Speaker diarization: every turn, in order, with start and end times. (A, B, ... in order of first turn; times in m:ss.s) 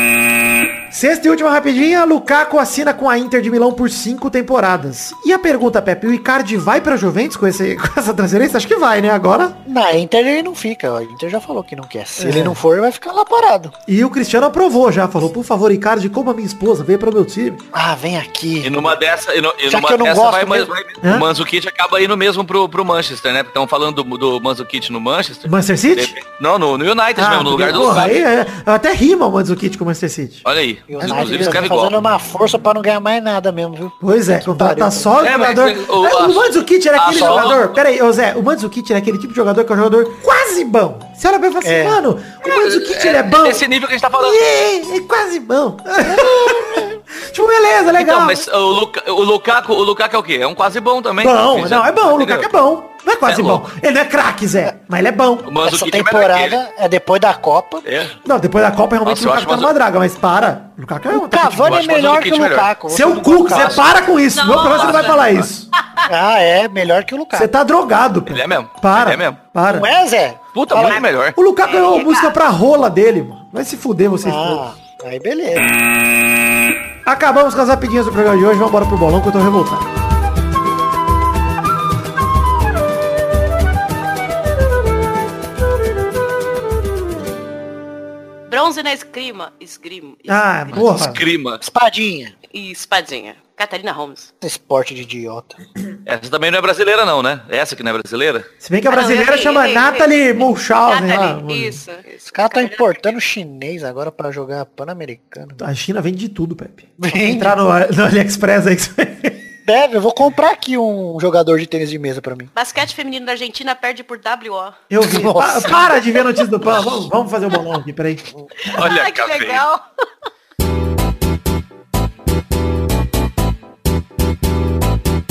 0:00.9-0:09.6 A
0:09.6-0:13.7 B
0:12.2-0:12.6 A
0:13.9-0:17.6 A
0:17.7-0:19.0 B
0:18.6-0:28.2 C
0:19.7-0:20.7 B
0:21.0-0:21.3 A
0:25.4-0:26.1 A
0:27.2-0:30.4 A
0:30.4-0:32.0 C
0:30.9-0:35.1 B
0:31.0-0:31.7 A
0:34.0-0:43.6 A
0:35.2-0:37.7 C
0:41.6-0:42.0 B
0:42.4-0:44.5 C
0:44.2-0:48.4 A
0:46.1-0:46.9 B
0:48.0-0:52.5 C
0:51.2-0:55.6 A
0:53.2-0:53.6 C
0:55.4-0:56.6 C
0:55.6-0:57.8 B
0:57.8-0:58.2 C
0:58.2-1:01.9 A
0:59.0-0:59.7 C
1:01.1-1:03.8 B
1:01.6-1:02.7 C
1:02.9-1:05.7 A
1:04.3-1:06.0 D
1:04.7-1:05.4 C
1:06.1-1:07.5 B
1:07.3-1:09.9 A
1:08.3-1:09.4 C
1:09.7-1:11.0 B
1:10.5-1:11.4 C
1:10.8-1:11.1 D
1:11.3-1:14.6 A
1:11.6-1:12.4 D
1:14.2-1:15.6 B
1:17.0-1:19.9 A
1:28.5-1:30.5 D
1:30.3-1:31.2 A
1:30.7-1:31.6 C
1:31.6-1:32.3 B
1:32.5-1:34.3 D
1:34.4-1:35.6 B
1:36.0-1:38.5 C
1:38.6-1:41.8 A
1:38.9-1:43.1 D
1:42.3-1:45.6 B
1:45.6-1:49.4 A
1:47.0-1:47.6 B
1:49.6-1:52.5 B
1:52.5-1:54.8 D
1:54.9-1:58.2 A
1:55.0-1:55.9 B
1:58.6-1:59.8 D
1:58.7-1:59.6 C